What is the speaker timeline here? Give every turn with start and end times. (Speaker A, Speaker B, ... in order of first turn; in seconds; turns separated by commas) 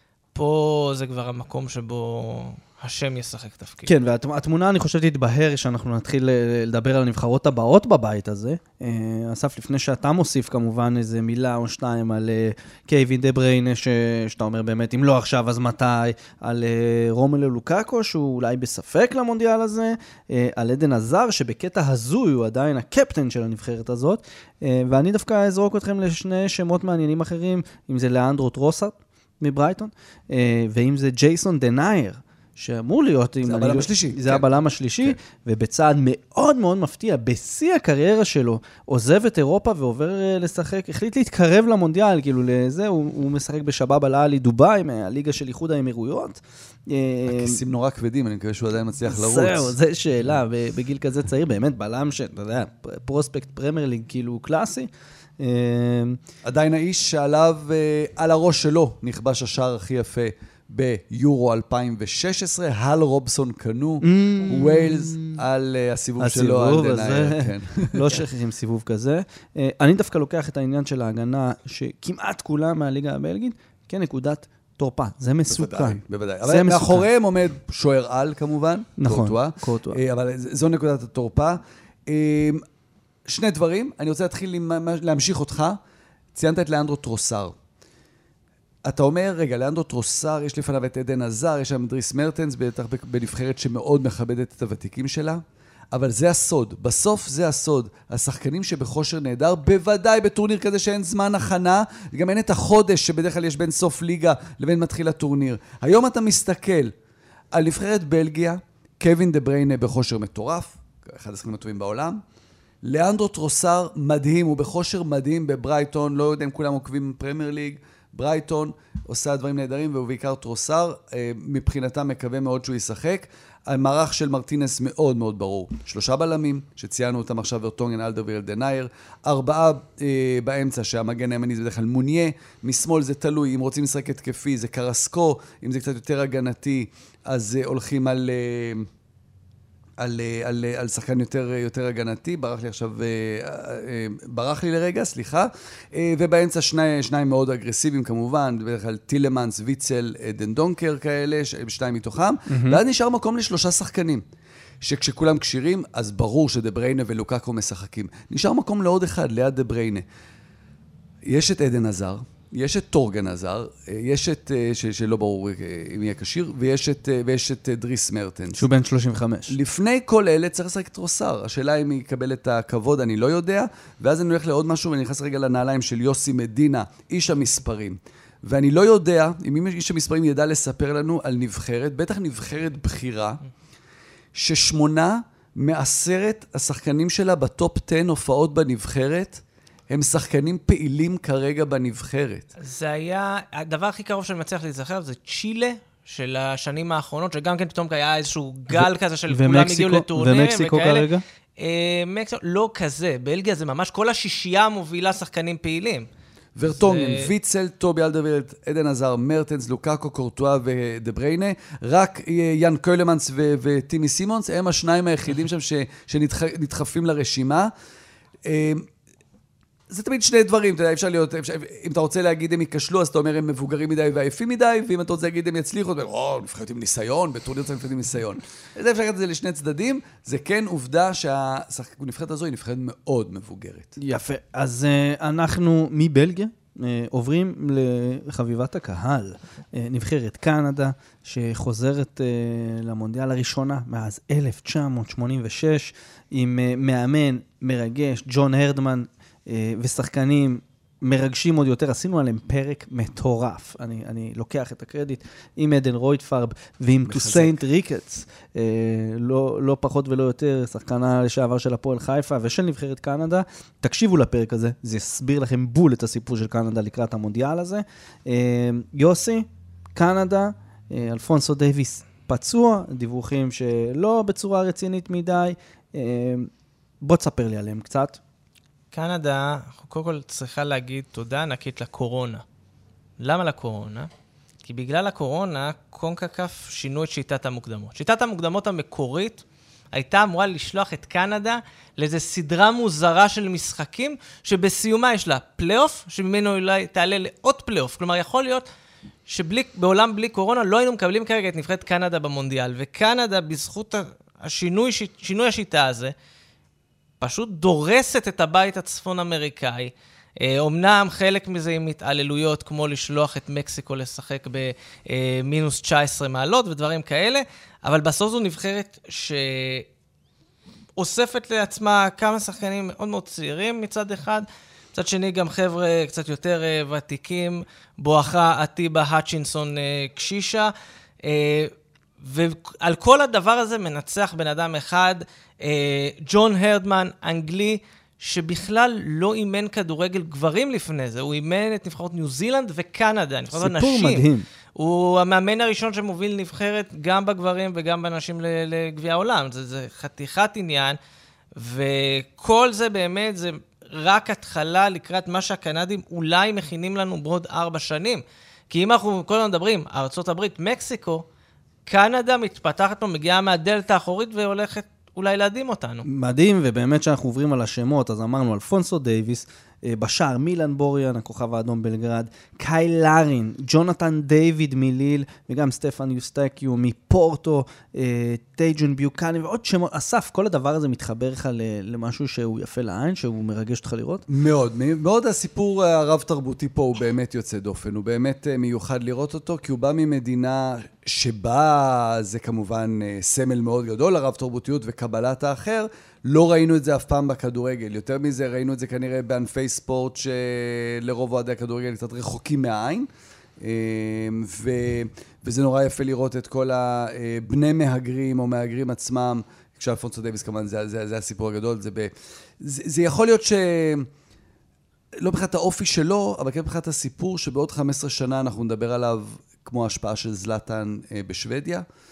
Speaker A: 0.3-3.9, Speaker B: 3.9-47.6, Speaker C: 33.4-35.2, Speaker C: 47.3-49.8, Speaker B: 49.1-56.2, Speaker C: 56.4-68.2, Speaker B: 64.0-65.4, Speaker B: 66.2-77.0, Speaker C: 75.5-82.6, Speaker B: 79.0-80.0, Speaker C: 83.3-85.8, Speaker C: 86.3-87.5, Speaker C: 88.8-106.9, Speaker C: 107.5-112.2, Speaker C: 112.8-138.9, Speaker C: 140.0-154.2, Speaker B: 152.5-152.8, Speaker C: 154.8-160.1, Speaker C: 161.3-168.7, Speaker B: 168.5-169.6, Speaker C: 169.5-183.4, Speaker C: 184.3-192.5, Speaker A: 192.6-206.1, Speaker B: 198.7-201.2, Speaker C: 206.6-217.7, Speaker A: 206.8-207.3, Speaker C: 218.4-218.9, Speaker C: 219.9-233.9, Speaker B: 234.0-276.5, Speaker C: 257.1-257.6, Speaker B: 277.0-278.2, Speaker A: 278.9-282.4, Speaker A: 283.2-284.1, Speaker A: 284.6-298.7, Speaker A: 299.3-306.1, Speaker A: 307.2-319.9, Speaker A: 321.0-330.7, Speaker A: 331.2-351.0, Speaker B: 343.5-344.4, Speaker A: 351.6-361.2, Speaker A: 361.9-366.1, Speaker B: 366.1-384.2, Speaker C: 384.3-403.1, Speaker C: 403.6-414.1, Speaker C: 415.2-421.9